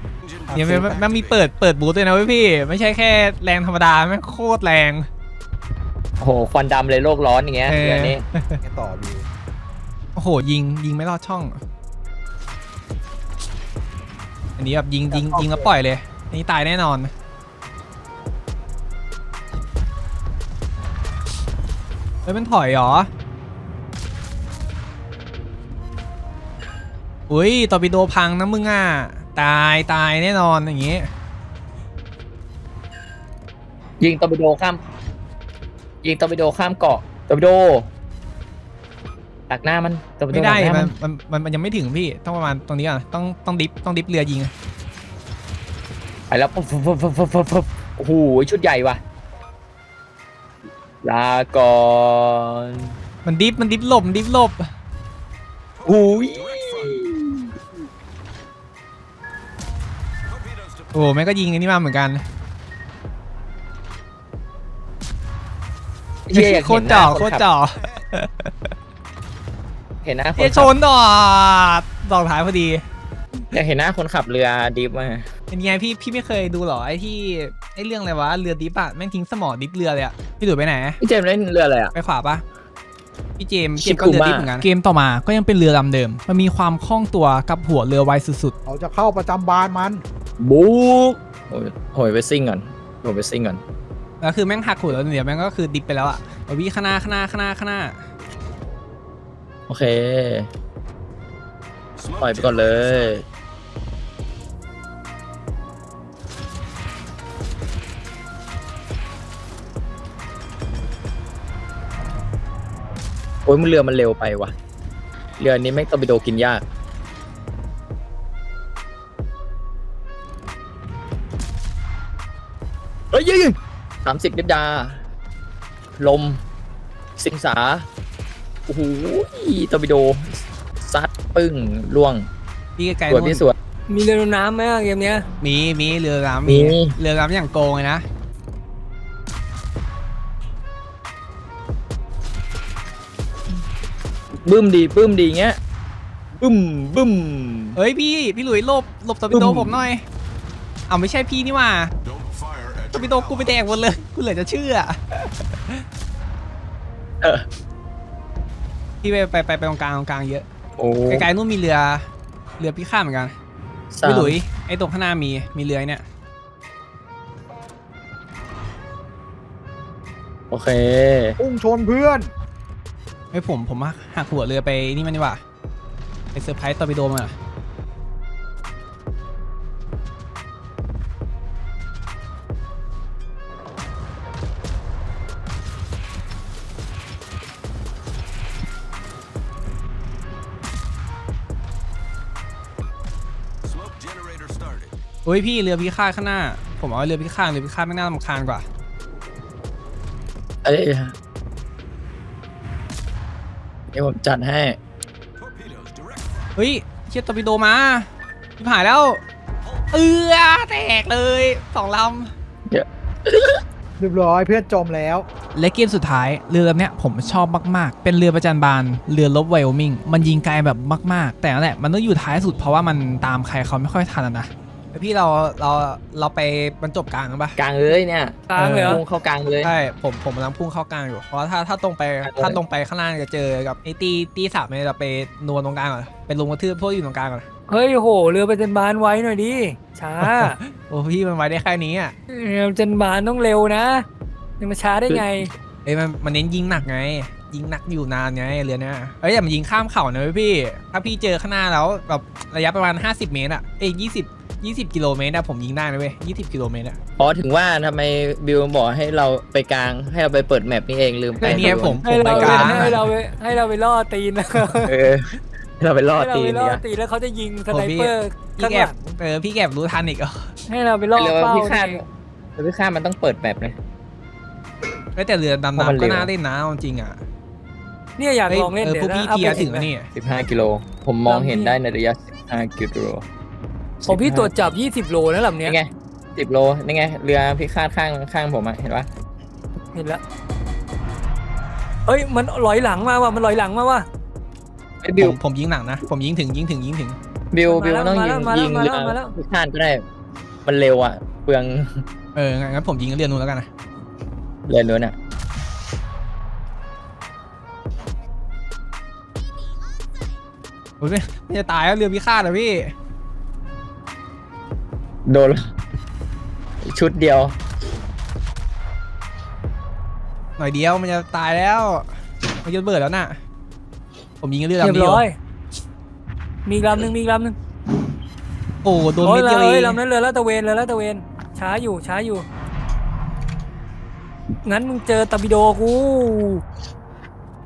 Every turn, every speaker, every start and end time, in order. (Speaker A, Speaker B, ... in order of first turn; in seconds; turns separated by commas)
Speaker A: 0.2-1.4, Speaker B: 0.5-5.1, Speaker C: 6.2-8.2, Speaker B: 7.6-8.6, Speaker D: 8.6-9.3, Speaker B: 10.2-11.6, Speaker B: 14.6-17.1, Speaker D: 15.1-15.7, Speaker B: 22.2-23.1, Speaker B: 27.3-31.1, Speaker C: 34.0-34.8, Speaker C: 36.0-37.9, Speaker C: 39.5-40.9, Speaker B: 40.3-44.5, Speaker C: 46.3-49.0, Speaker C: 51.0-52.9, Speaker B: 53.2-54.7, Speaker A: 55.8-57.0, Speaker C: 55.8-57.5, Speaker A: 60.3-60.9, Speaker B: 60.9-62.2, Speaker C: 66.3-67.5, Speaker B: 66.3-68.7, Speaker C: 70.0-70.7, Speaker B: 70.4-72.8, Speaker C: 73.5-75.3, Speaker B: 75.5-81.0, Speaker C: 81.0-81.9, Speaker B: 81.9-82.4, Speaker B: 83.4-88.5, Speaker C: 83.8-84.7, Speaker D: 88.7-90.0, Speaker C: 90.4-93.6, Speaker B: 94.2-98.0, Speaker C: 99.7-100.5, Speaker A: 102.0-103.2, Speaker C: 102.2-103.2, Speaker C: 113.5-114.5, Speaker C: 115.4-116.6, Speaker C: 123.1-125.0, Speaker C: 126.0-126.4, Speaker C: 127.2-127.9, Speaker C: 128.7-132.3, Speaker B: 132.8-133.4, Speaker C: 133.1-133.5, Speaker E: 133.9-135.2, Speaker B: 135.4-138.1, Speaker C: 136.4-136.9, Speaker C: 144.4-145.6, Speaker C: 146.4-147.8, Speaker B: 147.8-150.0, Speaker C: 149.3-149.8, Speaker B: 150.9-151.9, Speaker A: 152.0-153.6, Speaker B: 152.9-155.8, Speaker C: 157.2-157.4, Speaker B: 159.0-160.4, Speaker C: 160.8-161.3, Speaker B: 161.1-162.1, Speaker B: 162.6-163.3, Speaker C: 163.9-164.4, Speaker B: 164.0-166.0, Speaker C: 170.5-171.4, Speaker D: 171.4-172.3, Speaker B: 173.3-175.4, Speaker B: 176.3-177.3, Speaker A: 193.6-194.9, Speaker B: 195.2-198.7, Speaker C: 200.6-201.1, Speaker C: 203.9-204.8, Speaker A: 205.4-206.5, Speaker B: 206.6-209.2, Speaker B: 209.9-212.3, Speaker C: 212.7-213.6, Speaker D: 214.0-215.2, Speaker B: 215.5-227.6, Speaker C: 227.6-229.7, Speaker E: 228.5-229.0, Speaker B: 228.6-229.0, Speaker B: 229.6-237.5, Speaker C: 232.2-232.6, Speaker E: 237.7-240.6, Speaker B: 240.2-242.1, Speaker E: 242.3-244.1, Speaker E: 244.6-245.5, Speaker B: 245.8-257.0, Speaker C: 257.2-263.0, Speaker B: 261.4-263.1, Speaker E: 261.4-265.0, Speaker C: 264.8-266.8, Speaker E: 266.1-269.2, Speaker B: 267.7-270.5, Speaker E: 270.7-272.0, Speaker C: 271.1-273.8, Speaker B: 275.1-277.2, Speaker C: 275.7-276.3, Speaker E: 278.2-279.9, Speaker B: 278.5-280.1, Speaker C: 280.1-283.2, Speaker E: 281.3-281.8, Speaker C: 284.0-284.5, Speaker E: 284.1-285.8, Speaker C: 285.6-289.1, Speaker E: 289.9-290.2, Speaker E: 292.1-294.1, Speaker C: 295.0-295.4, Speaker B: 295.2-297.2, Speaker C: 297.5-300.0, Speaker E: 297.6-299.3, Speaker C: 300.6-302.0, Speaker B: 302.3-303.7, Speaker C: 304.6-305.1, Speaker B: 311.0-312.9, Speaker C: 315.2-315.7, Speaker C: 316.8-317.5, Speaker B: 320.6-322.1, Speaker B: 322.6-323.4, Speaker B: 324.4-325.2, Speaker E: 324.8-325.3, Speaker E: 326.6-327.5, Speaker B: 328.8-330.0, Speaker E: 329.2-332.4, Speaker E: 334.6-336.6